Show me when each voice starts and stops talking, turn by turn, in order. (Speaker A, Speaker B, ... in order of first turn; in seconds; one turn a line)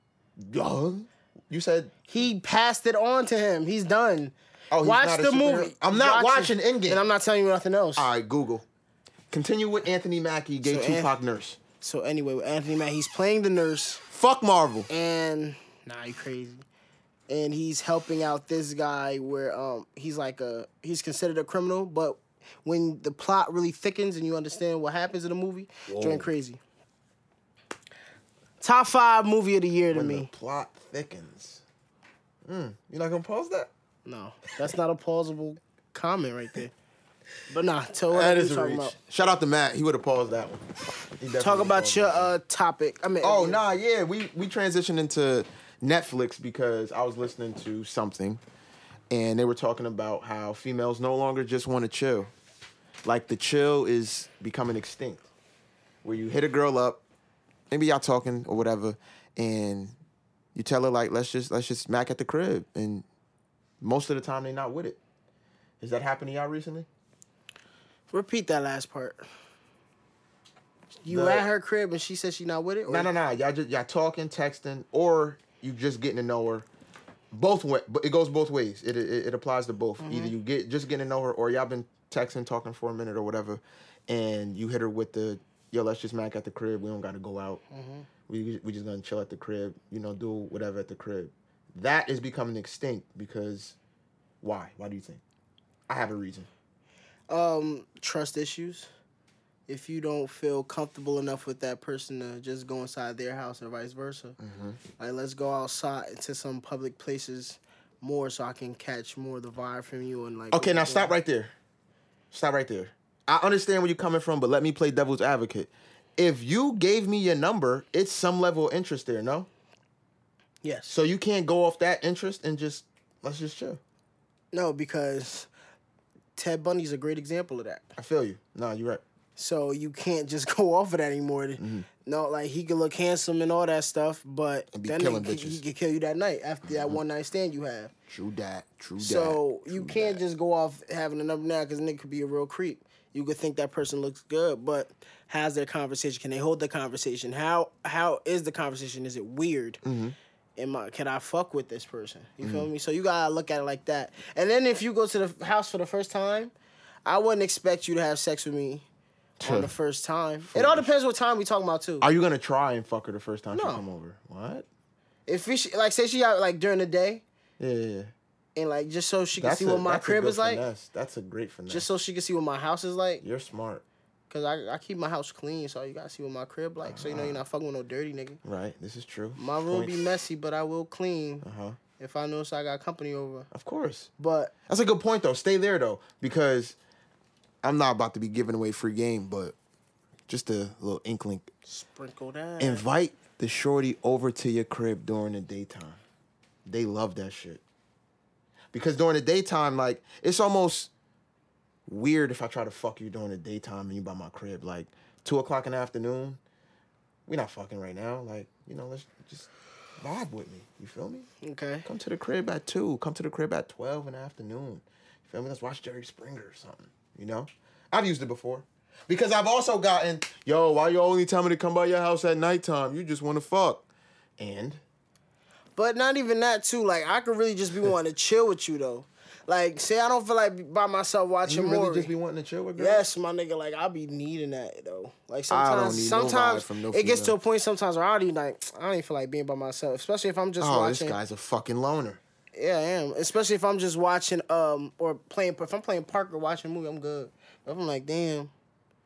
Speaker A: 0.4-1.9
Speaker B: 2.1-8.1
Speaker A: 4.7-7.0
Speaker A: 8.0-8.7
Speaker A: 9.3-11.6
Speaker B: 10.6-11.1
Speaker B: 11.8-14.0
Speaker A: 14.1-14.9
Speaker B: 14.9-16.6
Speaker B: 17.3-26.6
Speaker A: 25.9-26.3
Speaker B: 28.6-30.3
Speaker A: 29.9-31.6
Speaker A: 32.5-33.7
Speaker B: 34.1-36.7
Speaker B: 37.5-39.0
Speaker A: 38.1-40.7
Speaker A: 41.2-42.3
Speaker B: 41.4-43.6
Speaker A: 43.2-48.4
Speaker A: 49.1-52.3
Speaker A: 53.0-55.2
Speaker A: 56.0-57.0
Speaker A: 57.7-60.0
Speaker A: 60.5-63.0
Speaker A: 63.8-65.0
Speaker A: 65.8-66.9
Speaker B: 68.1-69.2
Speaker B: 71.0-73.1
Speaker A: 71.1-71.5
Speaker A: 72.9-76.7
Speaker A: 77.3-87.6
Speaker B: 80.0-80.3
Speaker B: 87.7-88.1
Speaker A: 88.3-93.8
Speaker A: 94.4-95.2
Speaker A: 95.9-96.5
Speaker B: 97.3-98.9
Speaker B: 99.7-104.4
Speaker A: 104.4-104.8
Speaker B: 105.0-111.2
Speaker A: 110.5-111.5
Speaker A: 112.3-119.5
Speaker B: 120.6-121.0
Speaker A: 120.9-123.8
Speaker B: 124.5-125.5
Speaker B: 126.4-127.9
Speaker A: 128.0-129.0
Speaker B: 129.4-137.9
Speaker A: 131.6-131.9
Speaker A: 134.7-135.6
Speaker A: 136.7-137.0
Speaker A: 138.1-140.2
Speaker B: 139.0-149.8
Speaker A: 149.8-150.2
Speaker B: 150.6-156.5
Speaker A: 152.4-152.7
Speaker B: 157.1-158.8
Speaker A: 159.4-159.7
Speaker B: 159.4-162.1
Speaker A: 160.5-160.9
Speaker A: 162.0-164.7
Speaker B: 163.5-163.8
Speaker B: 165.3-167.2
Speaker A: 167.6-168.1
Speaker B: 168.6-170.7
Speaker A: 169.4-171.9
Speaker B: 171.7-173.2
Speaker A: 173.2-173.8
Speaker B: 174.3-178.4
Speaker A: 176.8-177.4
Speaker A: 178.4-180.0
Speaker B: 179.4-181.5
Speaker A: 181.4-181.8
Speaker B: 182.0-183.5
Speaker A: 183.5-184.1
Speaker B: 184.2-184.5
Speaker A: 184.7-186.8
Speaker A: 187.6-189.6
Speaker A: 190.3-191.5
Speaker B: 191.7-192.9
Speaker A: 192.6-196.0
Speaker A: 196.7-197.6
Speaker A: 198.7-200.9
Speaker A: 201.9-206.4
Speaker A: 207.3-209.5
Speaker A: 210.0-211.3
Speaker B: 211.4-211.8
Speaker A: 211.8-223.9
Speaker A: 224.4-224.8
Speaker B: 225.8-232.1
Speaker A: 231.4-233.0
Speaker B: 232.8-241.2
Speaker A: 235.5-237.4
Speaker A: 240.6-242.2
Speaker B: 242.6-248.5